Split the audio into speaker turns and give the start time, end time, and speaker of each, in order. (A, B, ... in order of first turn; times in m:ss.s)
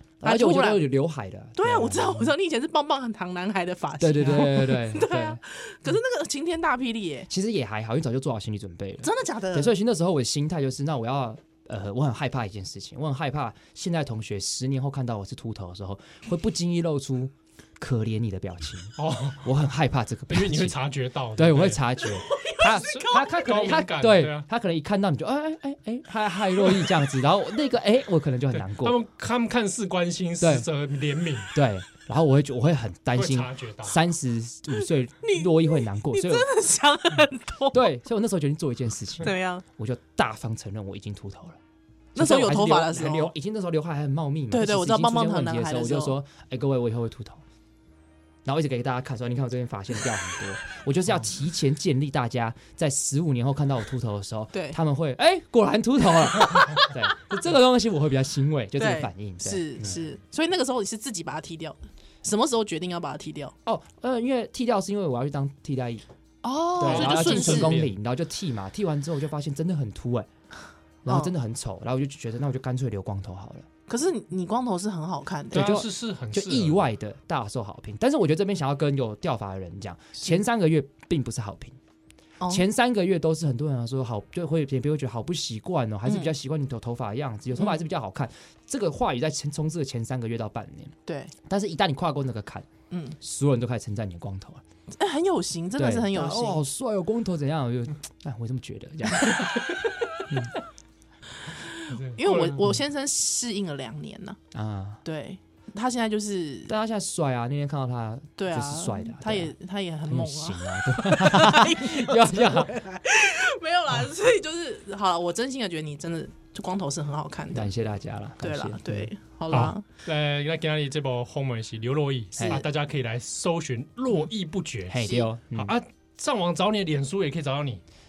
0:00.2-0:02.4 A
0:00.2-0:00.9 B
0:01.6-0:07.3 B
0:04.0-0:05.4 A
0:07.3-0:20.8 A
0:09.0-0:09.7 B
0:19.0-0:19.6 C
0:20.3-0:21.9 C
0:21.4-0:29.0 A
0:22.0-0:23.5 B
0:22.7-0:24.5 C
0:28.5-0:31.5 C
0:30.4-0:30.7 A
0:31.5-0:36.5 A
0:33.2-0:34.0 C
0:35.2-0:37.9 B
0:37.7-0:41.6 A
0:39.2-0:39.6 B
0:42.2-0:43.3 B
0:42.2-0:47.4 A
0:44.5-0:46.2 B
0:48.4-1:00.1 A
0:54.5-0:54.8 B
0:58.8-1:03.5 B
1:03.6-1:06.0 A
1:06.4-1:07.8 B
1:06.8-1:10.3 A
1:06.8-1:07.9 C
1:11.0-1:13.7 A
1:11.1-1:11.3 B
1:13.9-1:15.8 B
1:15.5-1:16.8 C
1:15.5-1:21.8 A
1:22.5-1:32.7 A
1:26.1-1:26.3 B
1:27.6-1:27.8 B
1:31.1-1:31.3 B
1:32.9-1:33.2 B
1:33.2-1:34.6 A
1:35.0-1:36.6 B
1:35.8-1:39.4 A
1:40.3-1:40.5 A
1:41.5-1:44.4 B
1:41.9-1:42.6 C
1:44.5-1:45.0 A
1:45.0-1:46.7 B
1:46.7-1:49.5 A
1:48.4-1:57.7 B
1:50.1-1:52.7 A
1:57.5-1:59.7 A
1:58.4-1:59.8 B
1:59.5-2:05.0 C
2:02.4-2:02.6 A
2:04.9-2:05.8 A
2:05.0-2:05.3 B
2:05.6-2:07.8 C